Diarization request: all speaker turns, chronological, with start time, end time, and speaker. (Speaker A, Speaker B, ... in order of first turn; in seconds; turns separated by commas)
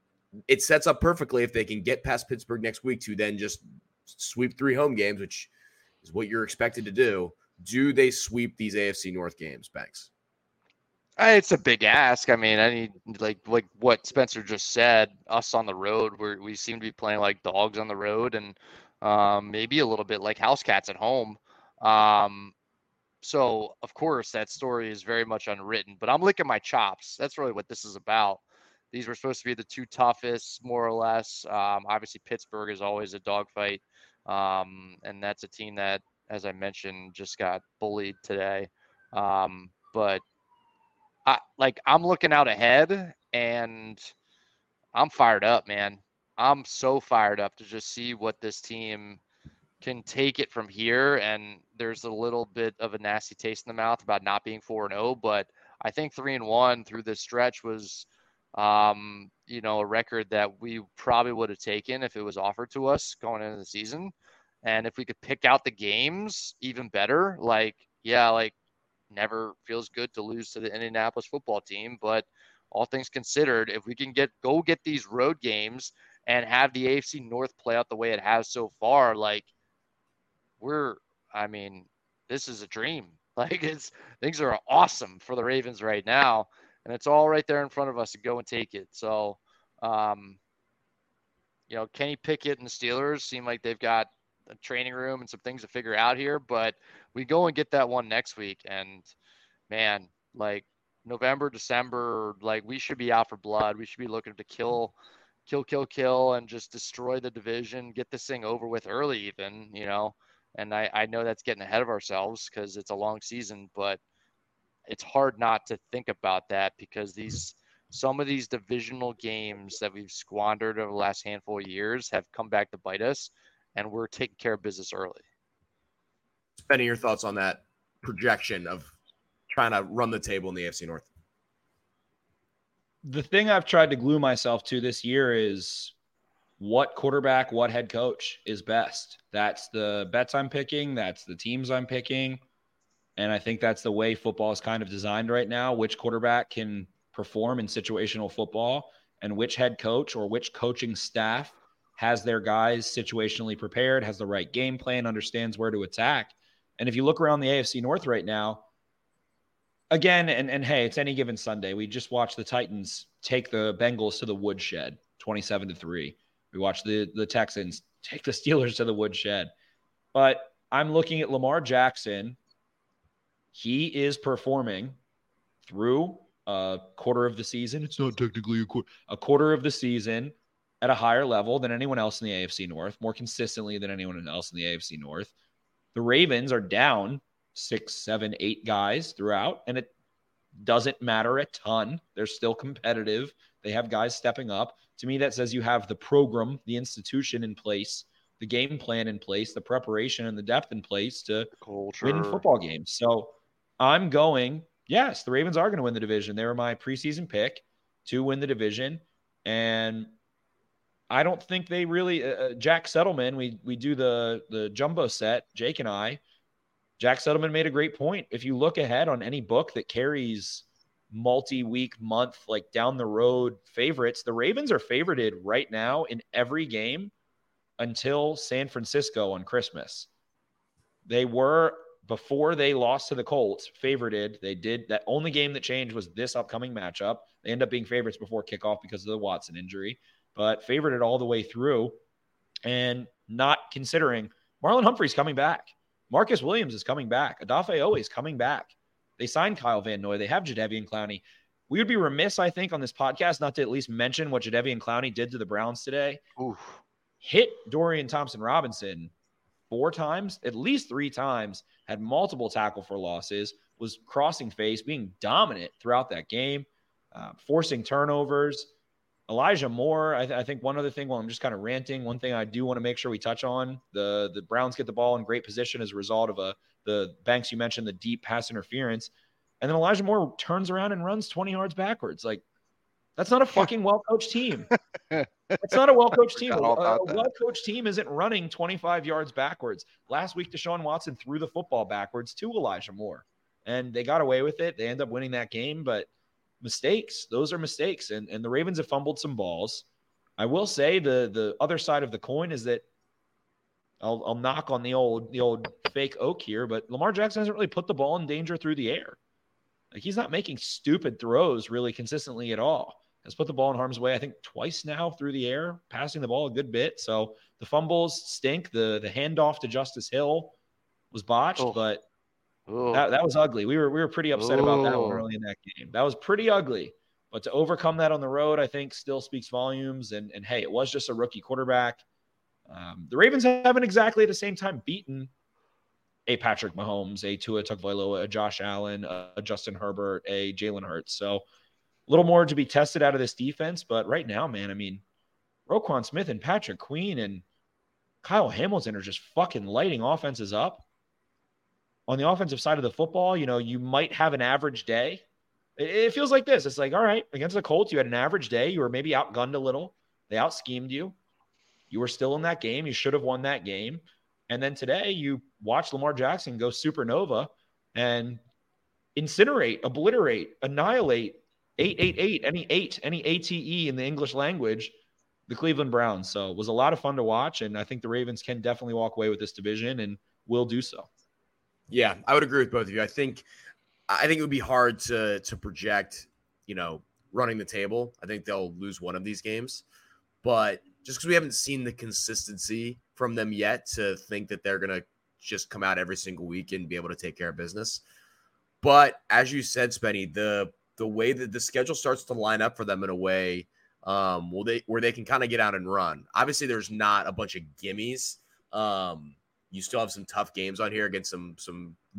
Speaker A: 0.5-5.5, Speaker A: 6.0-10.1, Speaker B: 11.2-22.5, Speaker B: 23.2-40.2, Speaker B: 41.3-44.1, Speaker B: 44.9-49.2, Speaker B: 49.8-64.1, Speaker B: 64.6-68.5, Speaker B: 69.1-79.5, Speaker B: 80.6-90.4, Speaker B: 91.7-99.1, Speaker B: 99.7-105.0, Speaker B: 105.5-114.0, Speaker B: 114.9-125.2, Speaker A: 126.6-128.9, Speaker A: 129.5-131.1, Speaker C: 133.0-135.9, Speaker C: 136.6-142.4, Speaker C: 143.2-158.6, Speaker C: 159.9-169.5, Speaker C: 170.1-172.4, Speaker C: 173.5-175.0, Speaker C: 175.6-185.3, Speaker C: 185.9-189.9, Speaker C: 190.6-210.1, Speaker B: 201.6-202.4, Speaker C: 211.1-216.2, Speaker C: 217.0-227.1, Speaker C: 227.8-230.1, Speaker C: 231.1-242.0, Speaker C: 242.7-256.2, Speaker B: 256.4-256.8, Speaker C: 257.2-259.1, Speaker C: 259.7-268.7, Speaker C: 269.3-282.4, Speaker C: 283.2-284.7, Speaker B: 285.1-285.6, Speaker C: 285.6-296.1, Speaker B: 286.2-287.3, Speaker C: 296.6-299.9, Speaker C: 300.4-302.9, Speaker C: 304.0-309.2, Speaker C: 309.9-320.6, Speaker C: 321.1-322.1, Speaker B: 322.7-323.1, Speaker C: 322.9-332.0, Speaker B: 324.4-325.2, Speaker C: 332.7-335.3, Speaker C: 336.3-341.4, Speaker C: 342.1-345.0, Speaker C: 345.7-347.4, Speaker C: 348.2-350.9, Speaker C: 352.1-355.2, Speaker C: 355.8-361.2, Speaker C: 361.9-368.4, Speaker C: 369.2-374.9, Speaker C: 375.5-381.1, Speaker A: 381.9-383.4, Speaker A: 384.1-389.8, Speaker A: 390.4-398.0, Speaker A: 398.8-412.0